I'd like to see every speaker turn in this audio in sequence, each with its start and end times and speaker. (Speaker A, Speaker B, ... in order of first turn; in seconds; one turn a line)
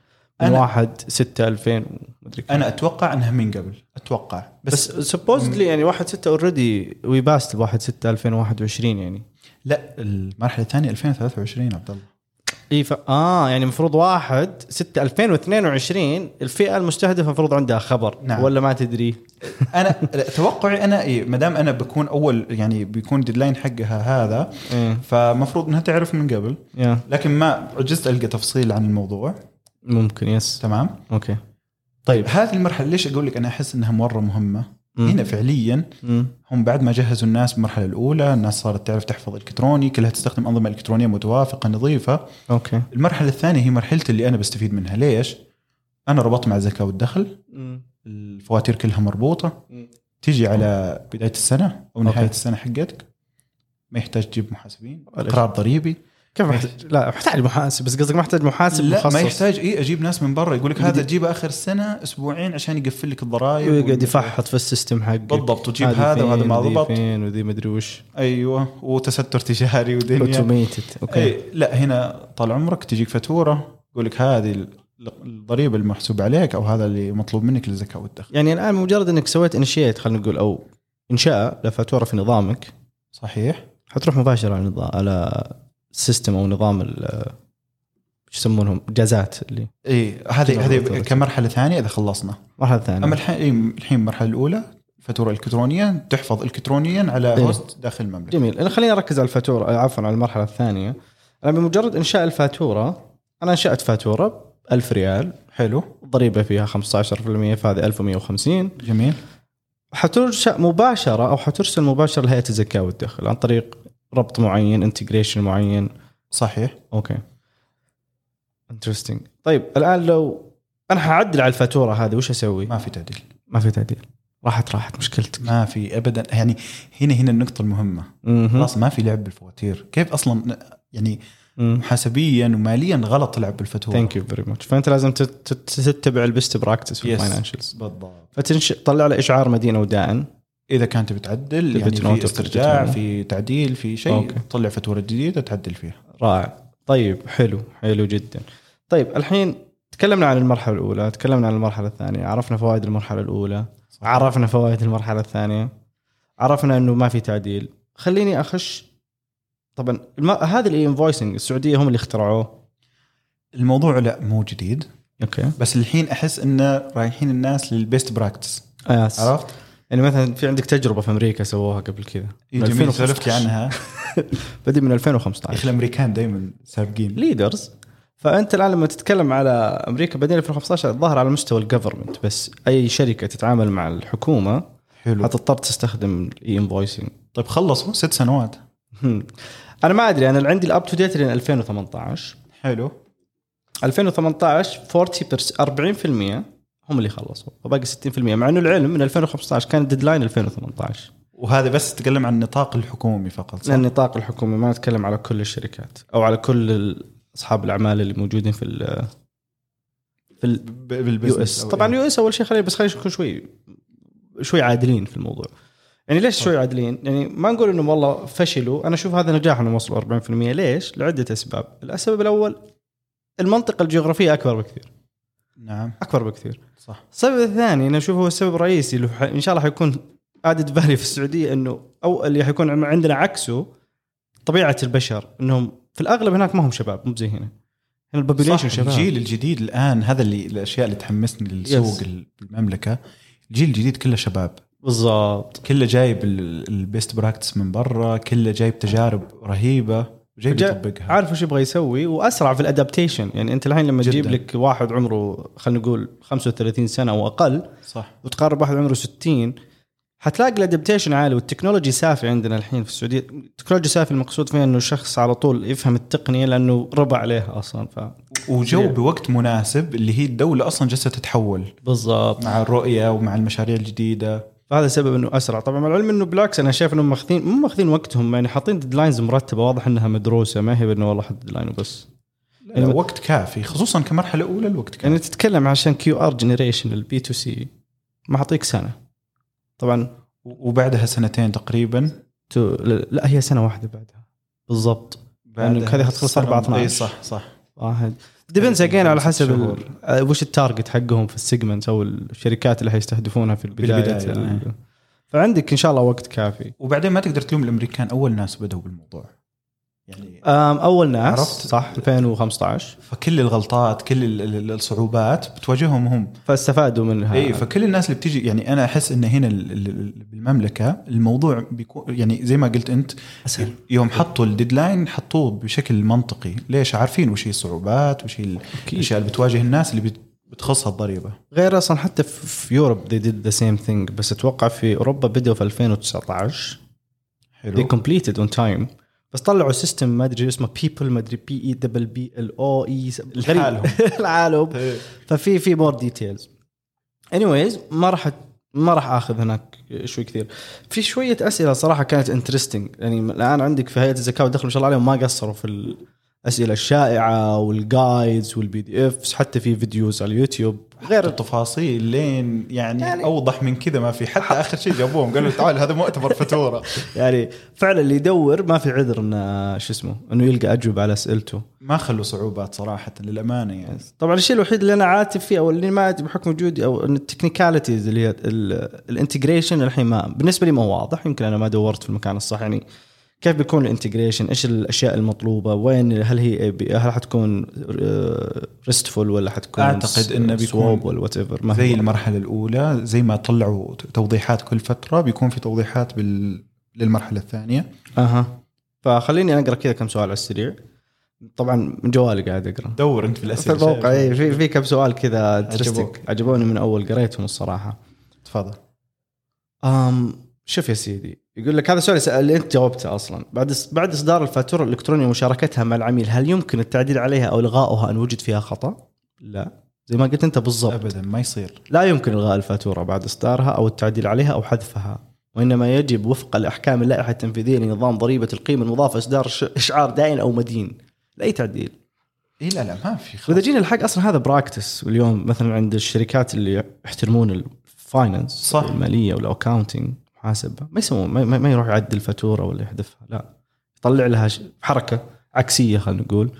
Speaker A: 0.4-0.7
Speaker B: 0.4-2.6
Speaker A: 2.5-5.6
Speaker B: 4.7-9.2
Speaker A: 9.7-12.1
Speaker B: 12.7-19.7
Speaker A: 18.2-18.5
Speaker A: 19.5-29.4
Speaker B: 24.7-25.0
Speaker B: 26.8-27.0
Speaker B: 29.9-31.4
Speaker A: 30.6-31.0
Speaker A: 32.1-42.3
Speaker B: 36.0-36.3
Speaker B: 42.5-42.9
Speaker A: 42.9-45.4
Speaker A: 46.1-47.4
Speaker B: 47.5-47.8
Speaker A: 48.0-49.6
Speaker A: 50.2-53.0
Speaker B: 52.0-52.3
Speaker A: 53.9-56.7
Speaker B: 55.1-55.4
Speaker B: 56.3-59.4
Speaker A: 58.7-64.4
Speaker B: 60.8-61.0
Speaker B: 63.6-68.0
Speaker A: 65.3-67.0
Speaker A: 68.2-70.5
Speaker B: 70.2-71.3
Speaker A: 71.1-78.3
Speaker B: 78.3-82.7
Speaker A: 83.2-83.6
Speaker B: 83.9-87.3
Speaker B: 88.3-89.7
Speaker A: 89.8-92.4
Speaker B: 90.4-91.2
Speaker B: 92.6-93.2
Speaker A: 93.0-98.4
Speaker B: 97.3-97.6
Speaker B: 98.3-105.3
Speaker A: 105.5-105.9
Speaker B: 106.0-108.8
Speaker A: 108.8-109.2
Speaker B: 109.9-115.9
Speaker A: 116.3-116.8
Speaker B: 116.9-117.2
Speaker B: 118.7-122.7
Speaker A: 122.7-123.2
Speaker B: 123.5-125.5
Speaker A: 125.4-131.2
Speaker B: 128.2-128.7
Speaker B: 131.6-131.8
Speaker A: 131.7-134.1
Speaker B: 133.9-137.7
Speaker A: 137.0-138.3
Speaker B: 138.3-140.3
Speaker A: 140.7-146.0
Speaker B: 141.7-143.0
Speaker B: 144.1-144.4
Speaker B: 146.2-155.7
Speaker A: 153.9-154.3
Speaker B: 156.4-158.9
Speaker B: 159.8-162.6
Speaker A: 163.6-164.8
Speaker B: 165.2-165.5
Speaker A: 165.6-169.5
Speaker B: 168.8-169.3
Speaker B: 169.9-175.7
Speaker A: 172.5-173.8
Speaker A: 175.5-177.2
Speaker B: 177.1-184.6
Speaker A: 185.0-185.3
Speaker B: 185.2-187.1
Speaker A: 187.3-188.6
Speaker B: 188.9-192.3
Speaker A: 192.6-192.9
Speaker B: 193.8-201.1
Speaker A: 201.4-203.8
Speaker B: 203.6-209.1
Speaker A: 210.6-212.0
Speaker B: 211.2-213.6
Speaker B: 214.4-215.5
Speaker B: 216.1-222.6
Speaker B: 223.4-224.9
Speaker A: 225.6-226.0
Speaker B: 226.0-226.6
Speaker B: 227.1-233.7
Speaker B: 234.4-237.5
Speaker B: 238.1-239.1
Speaker A: 238.4-243.0
Speaker B: 241.7-242.0
Speaker A: 243.5-244.6
Speaker B: 244.8-245.6
Speaker A: 245.6-251.2
Speaker B: 250.5-257.7
Speaker A: 254.0-254.4
Speaker A: 257.9-258.1
Speaker B: 258.2-259.6
Speaker B: 260.2-268.2
Speaker A: 268.3-271.7
Speaker B: 268.7-268.9
Speaker B: 271.8-272.5
Speaker A: 272.4-274.5
Speaker B: 274.7-282.1
Speaker A: 282.6-285.2
Speaker B: 285.0-287.7
Speaker B: 288.3-289.0
Speaker B: 289.8-290.1
Speaker A: 290.4-292.2
Speaker B: 292.5-297.1
Speaker A: 295.5-297.5
Speaker B: 297.8-304.7
Speaker A: 298.6-299.9
Speaker A: 303.7-304.6
Speaker B: 305.3-306.7
Speaker A: 306.8-309.3
Speaker A: 310.1-310.4
Speaker B: 310.4-312.9
Speaker A: 311.2-312.1
Speaker A: 313.0-316.4
Speaker B: 316.5-317.6
Speaker A: 317.3-331.4
Speaker B: 323.4-323.7
Speaker B: 328.8-329.1
Speaker B: 331.5-336.8
Speaker A: 337.6-337.9
Speaker B: 337.8-346.5
Speaker A: 343.3-344.0
Speaker A: 344.7-345.0
Speaker B: 347.3-361.3
Speaker A: 361.0-367.1
Speaker B: 363.0-363.3
Speaker B: 364.4-365.6
Speaker B: 366.3-371.6
Speaker A: 371.8-374.0
Speaker B: 373.9-382.8
Speaker B: 383.4-392.0
Speaker A: 389.8-391.1
Speaker A: 391.7-397.9
Speaker B: 398.1-400.8
Speaker B: 401.4-403.0
Speaker A: 402.9-404.6
Speaker B: 403.5-408.0
Speaker A: 405.7-406.2
Speaker A: 408.4-408.8
Speaker B: 409.8-421.1
Speaker A: 420.9-421.8
Speaker B: 421.9-431.9
Speaker A: 432.6-433.6
Speaker B: 433.5-443.5
Speaker A: 438.6-439.0
Speaker B: 444.0-446.5